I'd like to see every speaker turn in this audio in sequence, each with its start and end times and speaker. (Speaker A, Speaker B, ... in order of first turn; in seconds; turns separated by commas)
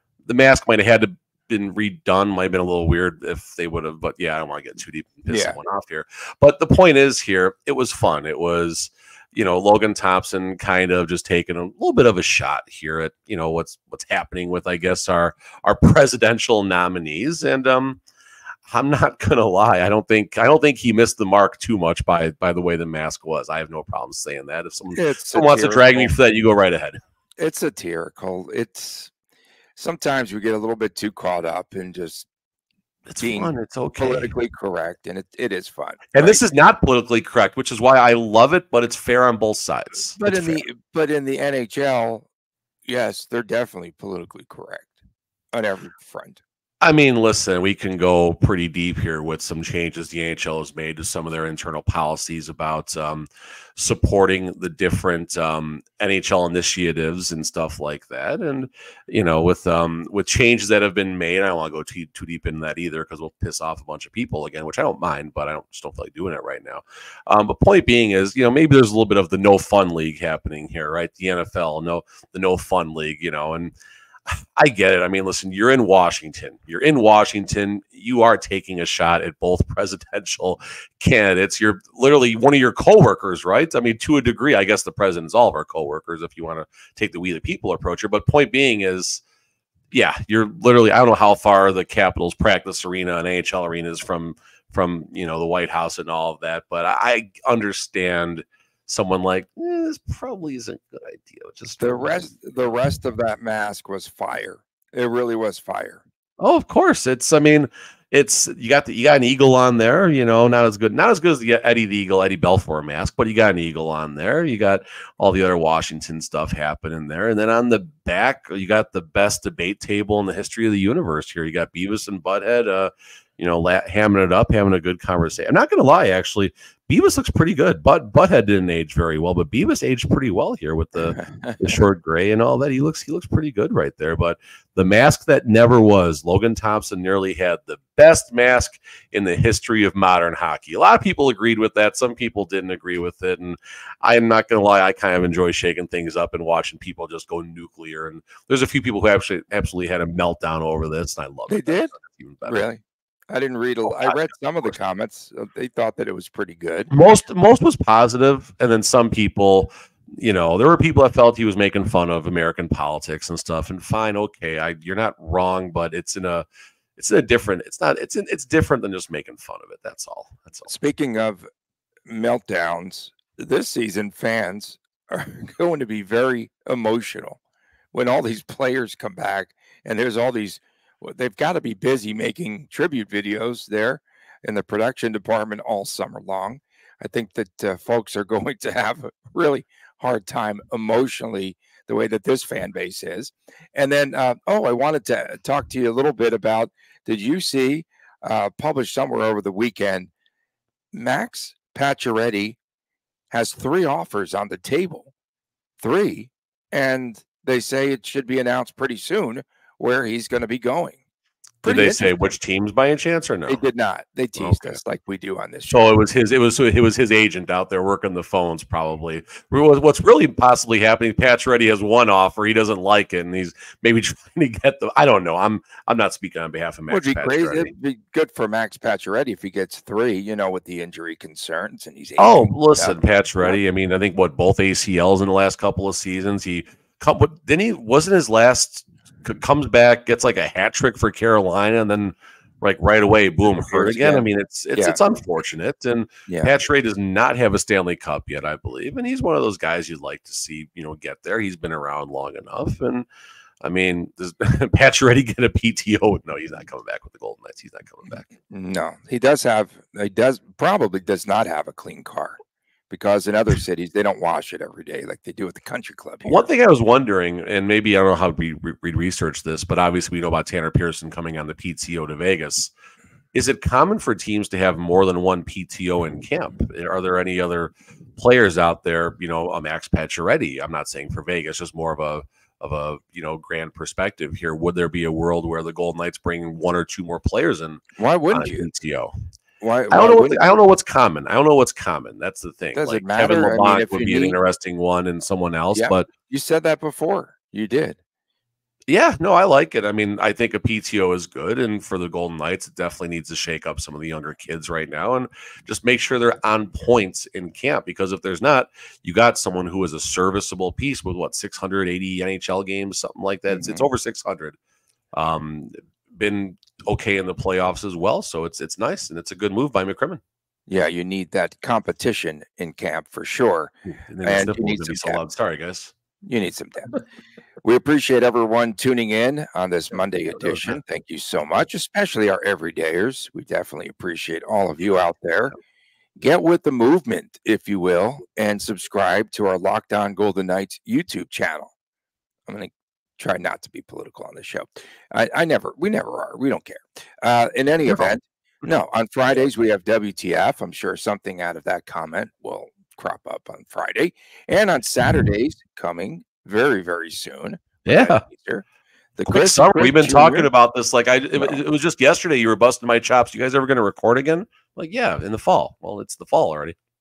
Speaker A: 0.2-18.0, Speaker B: 5.3-5.6, Speaker A: 18.6-27.0, Speaker B: 24.9-26.1, Speaker B: 27.4-29.1, Speaker B: 29.8-32.2, Speaker A: 33.1-34.3, Speaker B: 33.2-36.4, Speaker A: 36.1-40.6, Speaker B: 40.2-42.2, Speaker B: 42.8-44.9, Speaker B: 45.5-46.4, Speaker A: 46.8-73.7, Speaker A: 74.3-89.2, Speaker A: 89.9-102.3, Speaker B: 101.8-106.0, Speaker A: 106.4-152.7, Speaker B: 131.0-131.6, Speaker B: 151.5-151.9, Speaker B: 152.4-156.9, Speaker A: 153.8-154.2, Speaker A: 156.9-166.4, Speaker A: 167.0-170.7, Speaker B: 170.7-171.5, Speaker B: 172.1-177.4, Speaker B: 177.9-200.1, Speaker B: 200.9-202.6, Speaker B: 203.3-205.1, Speaker B: 205.8-211.0, Speaker B: 211.6-212.1, Speaker A: 211.6-213.6, Speaker B: 213.4-215.9, Speaker A: 214.3-214.8, Speaker A: 215.7-227.7, Speaker B: 226.9-233.6, Speaker A: 232.2-253.1, Speaker B: 243.5-245.0, Speaker A: 253.6-258.3, Speaker B: 258.5-262.4, Speaker B: 262.9-266.4, Speaker A: 266.2-272.7, Speaker A: 273.3-289.1, Speaker B: 288.0-288.7, Speaker B: 289.6-290.6, Speaker A: 289.9-296.1, Speaker B: 292.7-294.4, Speaker B: 295.7-298.0, Speaker A: 298.9-314.6, Speaker B: 313.5-313.9, Speaker A: 315.1-320.2, Speaker B: 320.7-323.7, Speaker A: 324.1-325.9, Speaker B: 324.2-325.2, Speaker B: 326.2-327.0, Speaker B: 327.6-335.5, Speaker A: 330.4-330.8, Speaker B: 336.2-341.7, Speaker B: 342.5-358.6, Speaker A: 347.9-348.1, Speaker A: 357.9-358.2, Speaker B: 359.2-360.5, Speaker A: 359.3-366.8